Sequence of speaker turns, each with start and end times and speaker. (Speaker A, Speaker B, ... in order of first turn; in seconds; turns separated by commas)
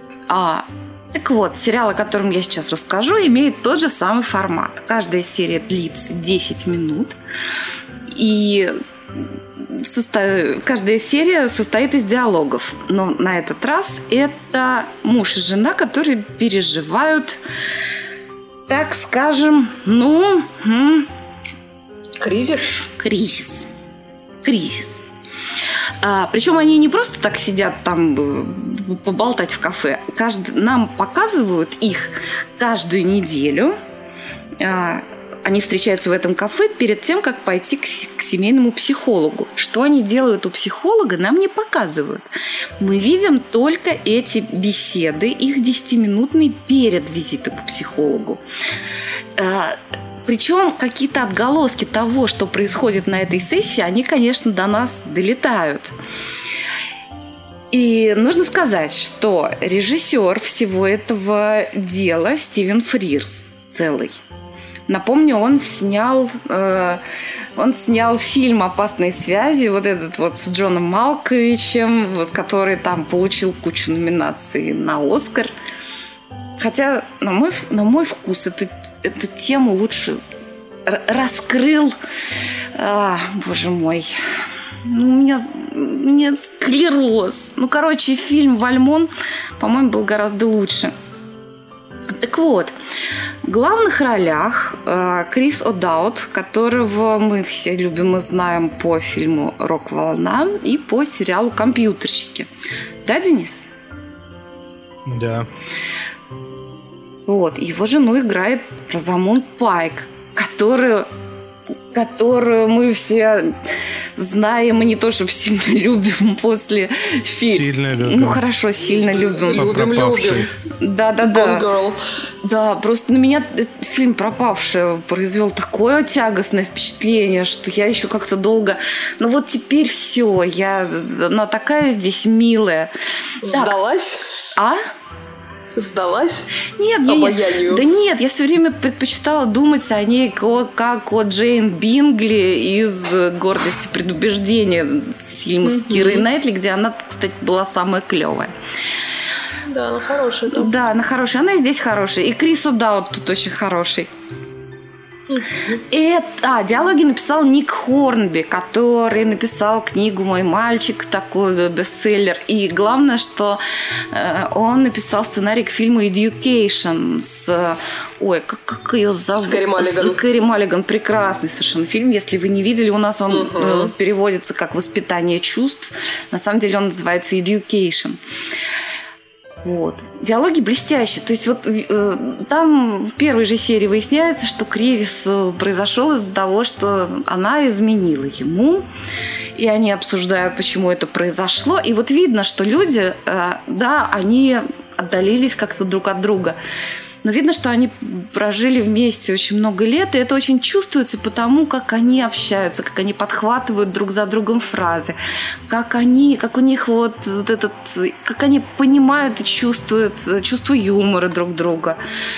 Speaker A: 0.3-7.2, Speaker A: 8.1-17.4, Speaker A: 18.7-21.1, Speaker B: 22.2-22.8, Speaker A: 22.9-23.7, Speaker A: 24.4-25.0, Speaker A: 26.0-33.8, Speaker A: 34.6-42.3, Speaker A: 42.8-48.4, Speaker A: 49.4-55.9, Speaker A: 57.7-64.2, Speaker A: 64.9-67.0, Speaker A: 67.5-75.5, Speaker A: 76.6-80.2, Speaker A: 80.8-81.9, Speaker A: 82.7-84.1, Speaker A: 84.8-90.9, Speaker A: 92.2-92.7, Speaker A: 93.4-102.5, Speaker A: 103.0-103.7, Speaker C: 105.1-105.5, Speaker A: 107.3-111.1, Speaker A: 111.9-113.5, Speaker A: 114.2-119.6, Speaker C: 117.4-118.4, Speaker B: 118.9-120.5, Speaker C: 119.5-120.5, Speaker A: 120.8-121.6, Speaker B: 121.2-122.0, Speaker A: 122.4-132.9, Speaker A: 133.4-133.8, Speaker B: 133.4-134.2, Speaker A: 134.6-134.8, Speaker B: 135.8-136.5, Speaker A: 136.8-148.5, Speaker B: 137.1-137.8, Speaker B: 145.6-146.3, Speaker B: 149.7-150.7, Speaker A: 150.5-154.1, Speaker B: 155.3-155.8, Speaker A: 155.9-163.6, Speaker A: 164.1-178.2, Speaker B: 169.4-170.2, Speaker B: 173.3-173.9, Speaker A: 179.6-188.8, Speaker A: 189.6-196.6, Speaker A: 197.2-205.2, Speaker A: 205.7-212.0